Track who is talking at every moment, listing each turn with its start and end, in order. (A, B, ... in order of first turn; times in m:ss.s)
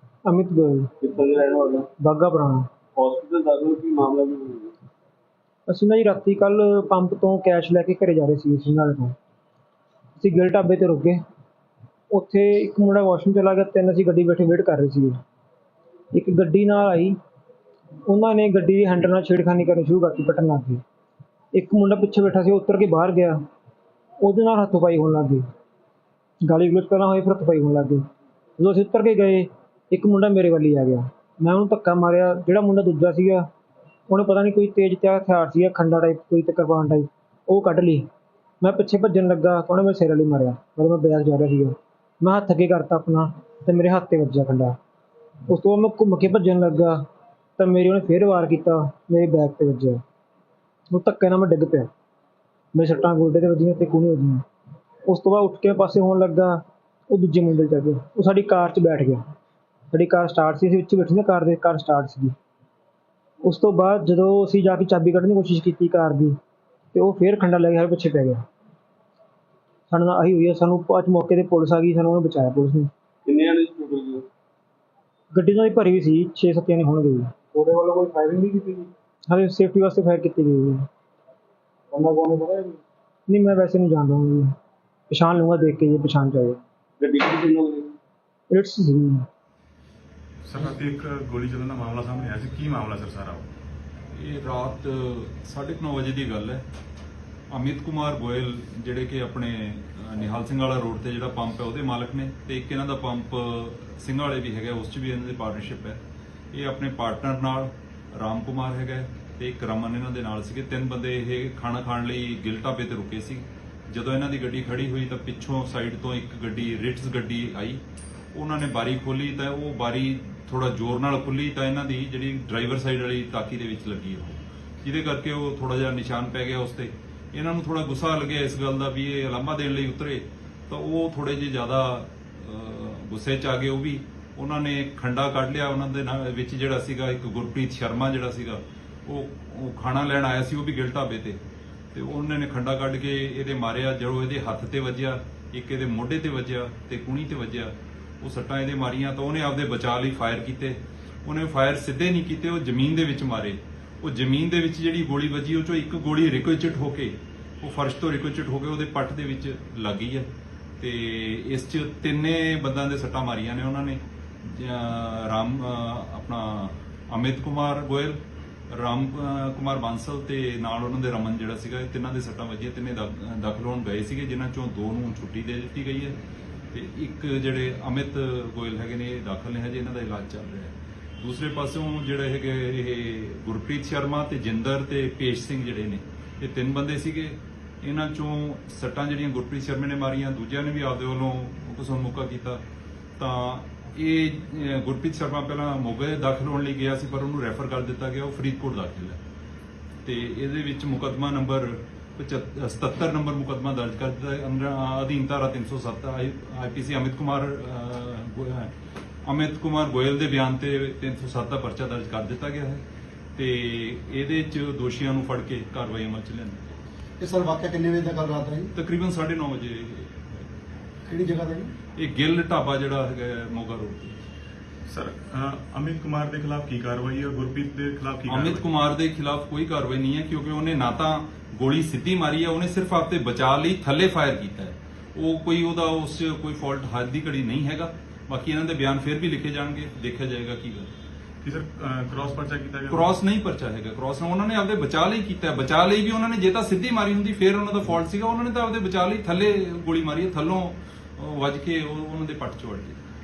0:00.2-0:01.0 A
0:01.0-0:01.9 B
0:02.0-0:02.7 A
0:03.0-0:04.7 B
0:05.7-0:09.2 A
0:10.2-0:11.2 A
0:12.1-0:15.2 A
0:16.1-0:17.2 A
0:18.0-0:20.8 A
0:21.5-0:23.4 A
0:24.2-0:25.4 A
0:26.4-0:28.0 A
0:28.6-0:33.5 A
0:34.1-0:38.1 A
0:38.6-0:44.8 A
0:45.5-0:47.0 A
0:47.6-0:50.0 A
0:50.9-0:51.9 A
0:52.7-0:54.4 A
0:55.0-0:59.2 A
0:59.9-1:02.3 A
1:03.4-1:06.4 A
1:06.9-1:08.4 A
1:09.9-1:12.9 A
1:13.2-1:14.3 B
1:15.3-1:20.9 A
1:22.0-1:22.7 A
1:23.3-1:24.5 A
1:25.1-1:26.6 A
1:27.0-1:27.9 B
1:28.5-1:29.2 A
1:30.4-1:33.5 C
1:34.1-1:36.6 D
1:37.5-1:46.0 D
1:46.5-1:57.8 D
1:58.3-2:21.4 D
2:21.9-2:40.3 D
2:40.8-2:56.2 D
2:56.7-3:12.6 D
3:13.2-3:19.2 D
3:20.0-3:28.7 D
3:29.2-3:32.8 D
3:33.4-3:36.6 D
3:37.2-3:38.7 E
3:38.7-3:40.4 D
3:41.1-3:41.7 E
3:41.9-3:44.2 D
3:44.9-3:48.7 C
3:48.3-4:00.9 D
4:01.4-4:03.2 C
4:02.9-4:13.0 D